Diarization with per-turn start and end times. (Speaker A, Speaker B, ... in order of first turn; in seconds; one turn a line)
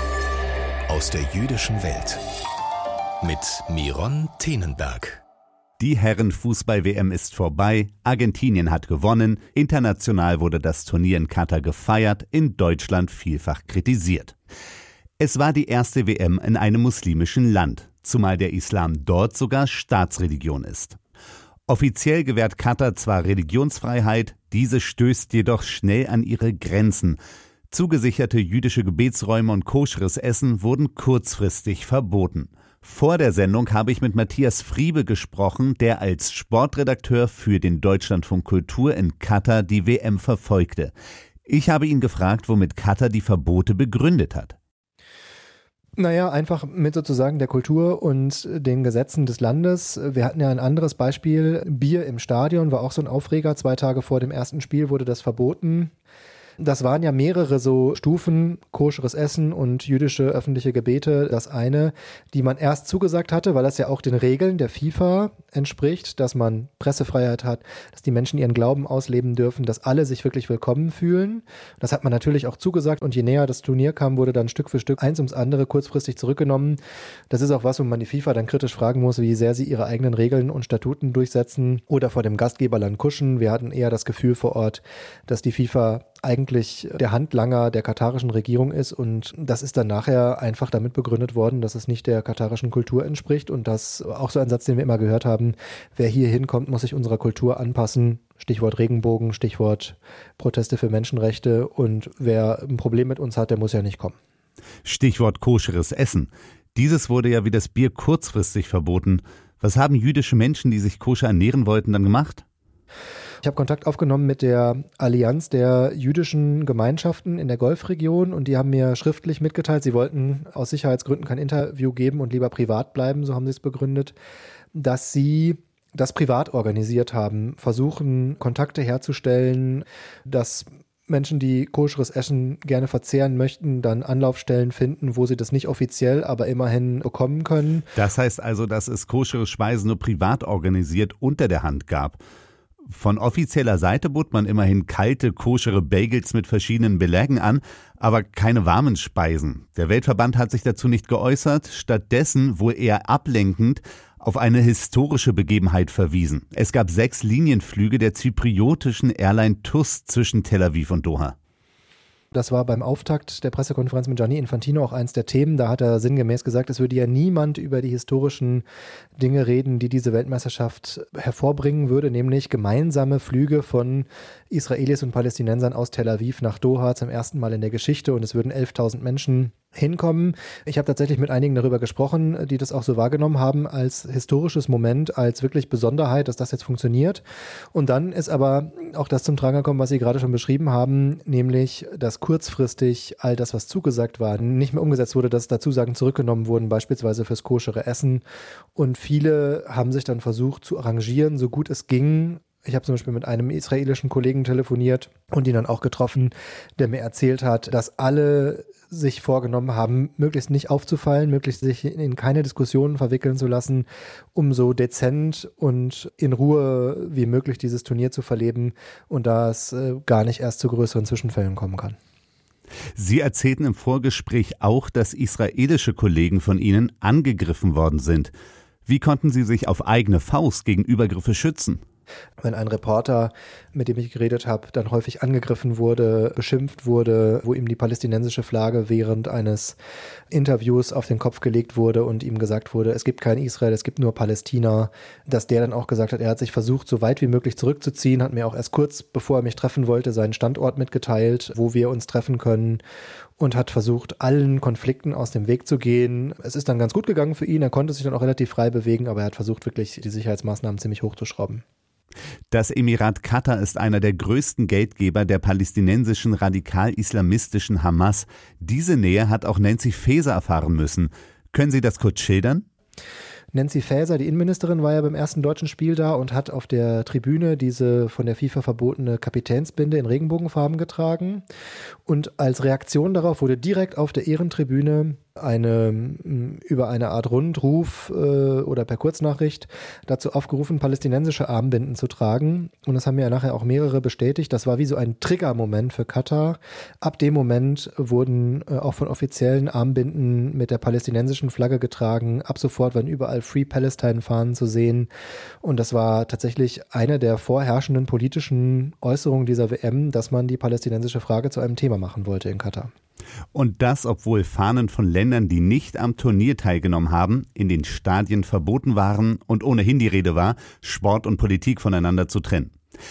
Speaker A: 0.9-2.2
Speaker A: 3.2-5.2
Speaker B: 5.8-14.3
Speaker B: 15.2-21.0
Speaker B: 21.7-27.2
Speaker B: 27.7-40.9
Speaker B: 41.5-44.6
Speaker C: 46.0-55.9
Speaker C: 56.6-76.8
Speaker C: 77.3-104.2
Speaker B: 104.8-112.4
Speaker C: 113.4-124.2
Speaker C: 124.7-137.9
Speaker B: 137.9-142.2
Speaker B: 142.9-161.3
Speaker C: 162.3-168.6
Speaker C: 169.2-198.2
Speaker C: 198.8-222.0
Speaker B: 223.0-228.3
Speaker B: 228.9-231.8
Speaker C: 232.4-239.8
Speaker C: 240.3-252.8
Speaker C: 253.4-261.6
Speaker B: 262.5-272.6
Speaker C: 273.5-281.4
Speaker C: 282.1-305.1
Speaker C: 305.6-312.9
Speaker B: 313.5-322.7